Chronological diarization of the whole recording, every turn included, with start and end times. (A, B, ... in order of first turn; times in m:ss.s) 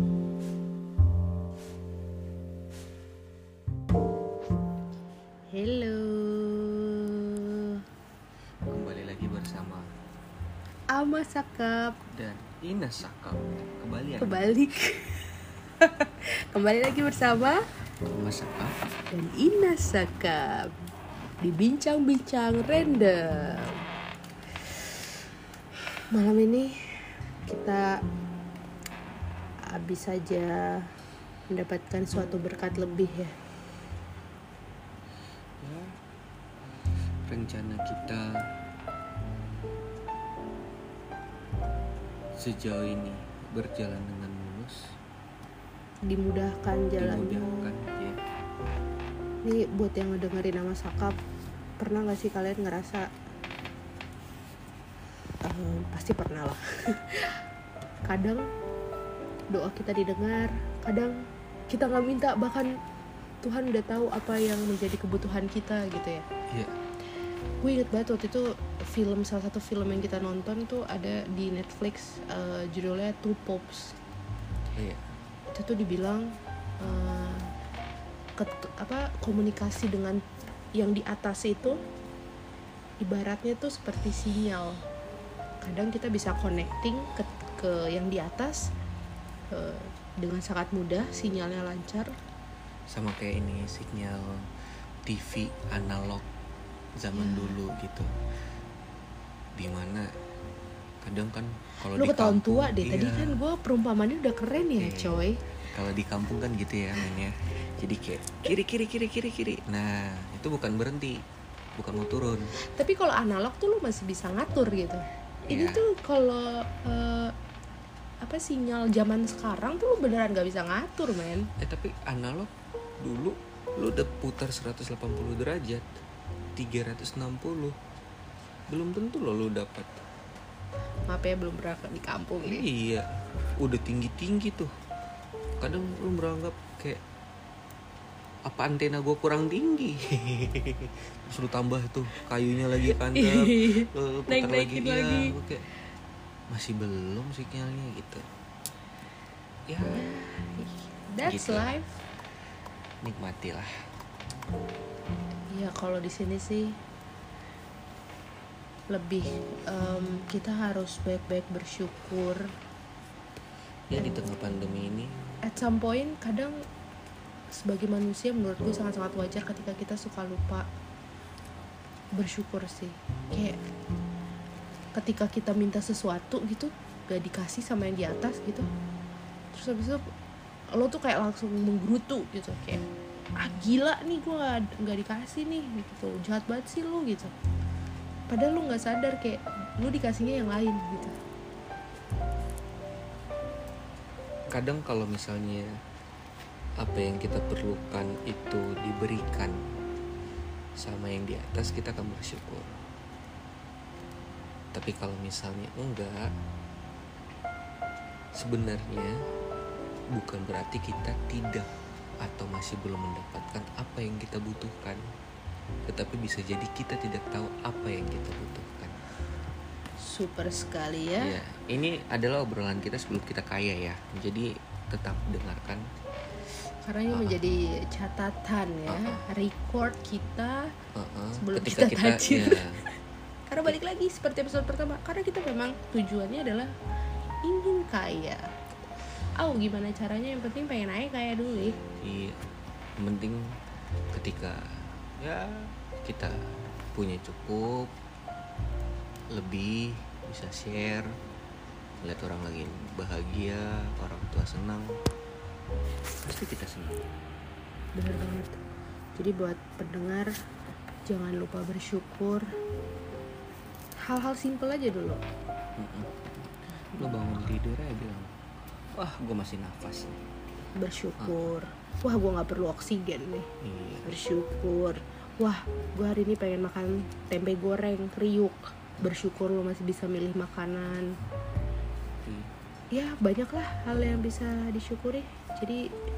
0:05.5-0:07.8 A
0:08.7-0:09.9 B
0:10.9-0:12.0 A
0:12.1-0:14.5 B
0:14.2-0:17.6 A
0:18.1-0:18.8 B
0:19.1-0:20.7 A
0:21.4-0:23.8 A
0:26.1-0:26.8 A
0:27.4-0:28.0 A
0:29.7-0:30.9 A
0:31.5-0:33.4 A
0:35.6-0:36.0 B
0:37.2-0:38.5 B
0:42.4-0:44.9 B
0:46.1-0:47.7 A
0:47.0-0:48.2 B
0:49.4-0:51.2 A
0:51.8-0:53.1 A
0:55.4-0:57.4 A
0:58.1-0:58.5 A
0:59.5-1:02.8 A
1:03.4-1:06.3 A
1:07.6-1:14.0 A
1:14.8-1:15.1 B
1:15.5-1:16.3 A
1:16.8-1:17.5 A
1:18.4-1:20.2 A
1:20.8-1:21.8 A
1:23.0-1:24.8 A
1:25.6-1:28.7 A
1:29.5-1:32.1 A
1:32.9-1:34.5 B
1:35.1-1:36.2 B
1:37.0-1:38.1 B
1:37.1-1:37.6 A
1:39.6-1:40.1 B
1:41.0-1:43.4 B
1:42.0-1:45.4 A
1:44.8-1:51.2 B
1:51.8-1:52.5 B
1:52.6-1:57.4 A
1:55.5-1:55.8 B
1:58.2-2:01.5 A
2:01.6-2:06.0 B
2:06.6-2:07.8 B
2:08.7-2:10.0 B
2:11.1-2:12.7 A
2:12.4-2:14.7 B
2:15.6-2:17.0 B
2:18.5-2:25.7 B
2:22.9-2:25.4 A
2:26.5-2:28.3 B
2:29.7-2:30.0 B
2:29.9-2:32.0 A
2:31.2-2:31.7 B
2:33.0-2:33.7 B
2:35.5-2:36.8 A
2:38.9-2:42.5 A
2:43.9-2:45.2 B
2:45.4-2:46.6 A
2:47.5-2:50.7 A
2:52.2-2:53.6 A
2:54.9-2:58.7 A
2:59.5-3:00.1 A
3:00.7-3:02.8 A
3:03.4-3:07.3 A
3:08.3-3:11.2 A
3:14.5-3:15.7 B
3:16.8-3:19.6 B
3:20.8-3:22.8 B
3:24.7-3:26.3 B
3:28.4-3:29.2 B
3:30.1-3:31.7 B
3:32.2-3:35.0 B
3:35.9-3:39.0 B
3:40.0-3:41.3 A
3:41.2-3:45.8 B
3:46.8-3:50.7 A
3:47.1-3:47.4 B
3:48.9-3:49.2 B
3:50.9-3:52.8 B
3:51.4-3:53.0 A
3:53.5-3:56.7 A
3:57.4-3:58.5 A
3:59.4-4:01.8 A
4:02.0-4:02.4 B
4:03.0-4:03.5 B
4:04.1-4:07.9 B
4:09.3-4:11.1 B
4:12.0-4:14.9 B
4:16.2-4:17.0 B
4:18.0-4:18.6 A
4:19.2-4:20.3 A
4:21.1-4:22.5 A
4:24.0-4:25.2 A
4:25.8-4:28.3 B
4:29.0-4:30.2 B
4:30.8-4:33.5 A
4:33.6-4:34.1 B
4:34.0-4:41.1 A
4:42.2-4:42.5 B
4:42.9-4:45.8 A